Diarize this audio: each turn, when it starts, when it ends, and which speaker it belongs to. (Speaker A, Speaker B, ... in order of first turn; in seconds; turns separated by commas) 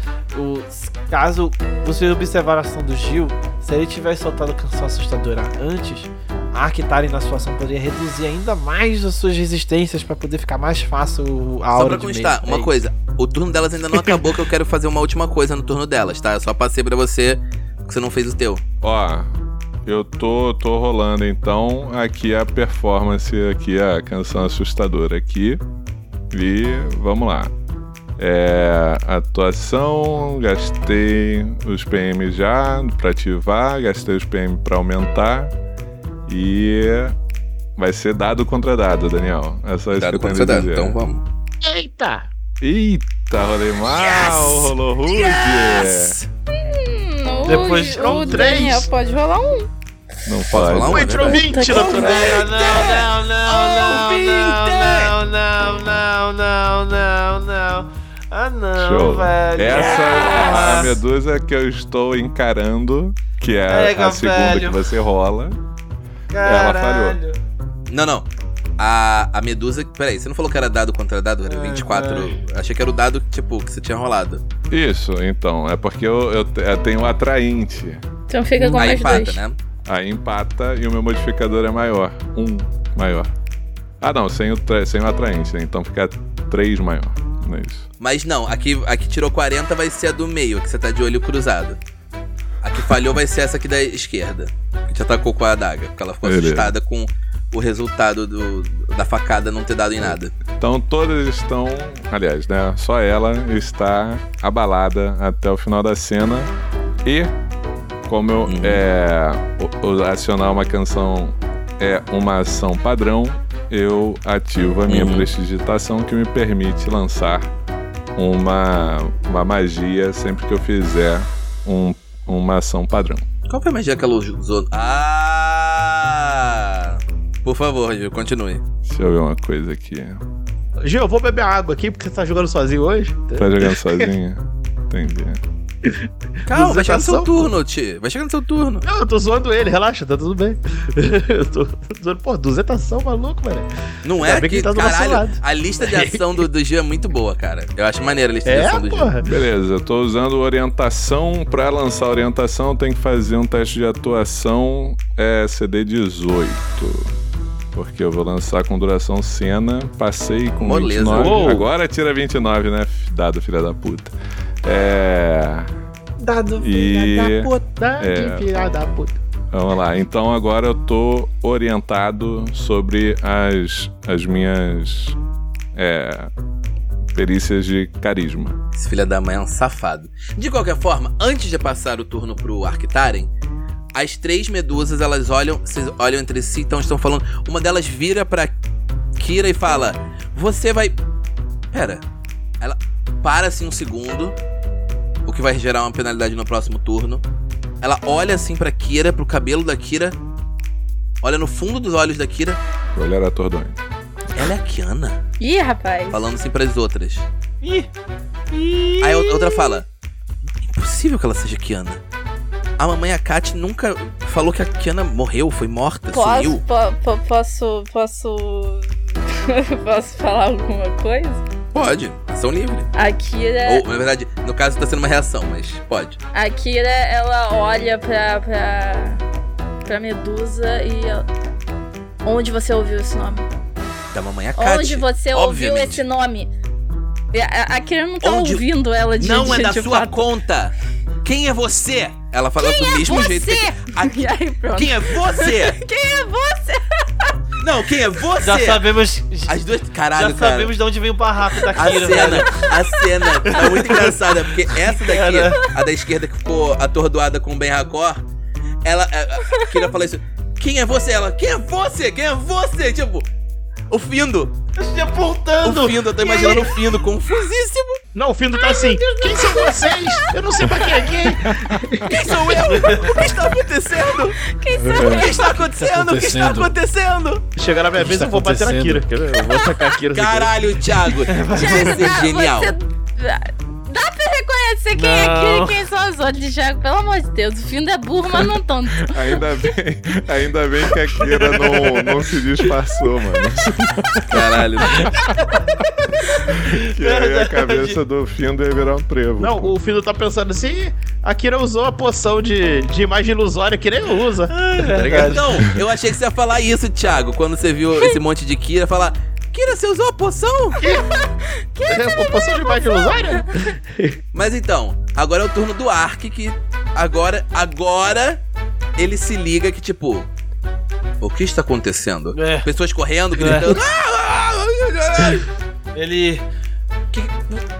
Speaker A: 0.3-12.8, Speaker B: 11.7-18.6, Speaker C: 18.8-25.6, Speaker C: 26.3-27.5, Speaker C: 28.2-35.5, Speaker C: 36.3-37.1, Speaker C: 37.8-41.0, Speaker B: 39.9-41.2, Speaker D: 41.6-42.3, Speaker C: 42.6-46.2, Speaker B: 43.9-44.6, Speaker E: 46.5-49.7, Speaker A: 47.5-48.5, Speaker D: 47.9-48.9, Speaker C: 50.2-51.1, Speaker B: 50.5-55.1, Speaker D: 50.7-52.5, Speaker E: 51.1-52.4, Speaker A: 51.8-61.0, Speaker C: 58.8-65.6, Speaker B: 59.7-60.9, Speaker A: 63.7-64.9, Speaker A: 66.3-67.4, Speaker C: 66.4-67.2, Speaker B: 67.9-74.4, Speaker A: 71.5-72.4, Speaker C: 74.7-78.0, Speaker E: 78.3-79.4, Speaker B: 78.6-79.6, Speaker C: 79.8-83.3, Speaker C: 84.0-87.9, Speaker B: 88.0-91.8, Speaker B: 92.6-100.3, Speaker C: 96.2-96.7, Speaker C: 100.0-106.5, Speaker C: 107.0-107.3, Speaker C: 108.1-117.5, Speaker B: 108.5-108.8, Speaker B: 114.9-115.3, Speaker C: 118.2-123.2, Speaker B: 123.5-128.6, Speaker C: 128.8-130.2, Speaker D: 130.8-134.1, Speaker C: 133.3-135.4, Speaker B: 136.4-138.9, Speaker D: 136.5-137.5, Speaker D: 138.8-146.2, Speaker B: 144.0-149.1, Speaker D: 148.4-149.3, Speaker C: 149.2-157.1, Speaker C: 157.7-165.7, Speaker B: 160.6-161.6, Speaker D: 161.1-161.7, Speaker A: 166.2-167.6, Speaker C: 166.6-168.5, Speaker D: 167.6-169.2, Speaker C: 169.5-175.2, Speaker C: 175.7-176.3, Speaker C: 177.1-178.6, Speaker B: 178.7-183.3, Speaker B: 183.9-188.5, Speaker B: 189.2-190.9, Speaker B: 191.7-192.0, Speaker B: 192.6-194.4, Speaker B: 195.2-197.2, Speaker B: 197.8-200.2, Speaker B: 201.2-202.6, Speaker C: 202.9-203.8, Speaker B: 204.3-205.2, Speaker E: 205.4-206.3, Speaker B: 206.1-207.2, Speaker A: 207.6-207.9, Speaker A: 208.5-209.8, Speaker B: 209.0-209.9, Speaker B: 210.7-212.0, Speaker B: 212.8-216.6, Speaker E: 216.1-221.4, Speaker B: 221.7-222.9, Speaker E: 222.9-223.8, Speaker B: 223.6-226.2, Speaker E: 226.3-229.2, Speaker E: 229.8-231.2, Speaker E: 232.2-233.5, Speaker B: 234.1-236.0, Speaker E: 234.6-236.5, Speaker E: 237.3-240.2, Speaker B: 238.2-238.6, Speaker B: 239.2-245.8, Speaker E: 242.6-247.0, Speaker B: 247.6-248.9, Speaker A: 248.4-249.6, Speaker B: 249.5-250.7, Speaker A: 250.1-252.7, Speaker B: 251.6-258.2, Speaker E: 252.3-253.6, Speaker A: 253.5-255.7, Speaker B: 258.8-263.3, Speaker B: 263.9-264.5, Speaker A: 264.8-266.7, Speaker B: 265.6-268.0, Speaker E: 266.2-266.7, Speaker D: 268.1-272.3, Speaker E: 268.6-270.1, Speaker C: 271.5-271.8, Speaker A: 271.8-273.3, Speaker B: 272.1-274.4, Speaker E: 274.4-275.5, Speaker C: 274.8-275.2, Speaker B: 275.0-277.4, Speaker A: 275.1-276.7, Speaker D: 277.6-280.5, Speaker A: 277.9-279.1, Speaker E: 279.4-279.9, Speaker B: 280.1-282.7, Speaker A: 281.2-282.2, Speaker E: 281.5-289.5, Speaker A: 284.9-285.9, Speaker C: 289.0-295.3, Speaker A: 291.2-292.1, Speaker B: 294.3-295.2, Speaker A: 294.9-298.0, Speaker C: 296.5-299.7, Speaker D: 299.4-305.6, Speaker A: 304.5-305.7, Speaker B: 305.1-310.8, Speaker D: 310.8-311.1, Speaker E: 310.8-313.6, Speaker D: 311.9-314.2, Speaker B: 314.3-318.4, Speaker B: 319.0-320.3, Speaker B: 321.2-325.5, Speaker A: 322.3-322.7, Speaker A: 323.3-323.8, Speaker A: 325.9-326.4, Speaker A: 327.1-327.6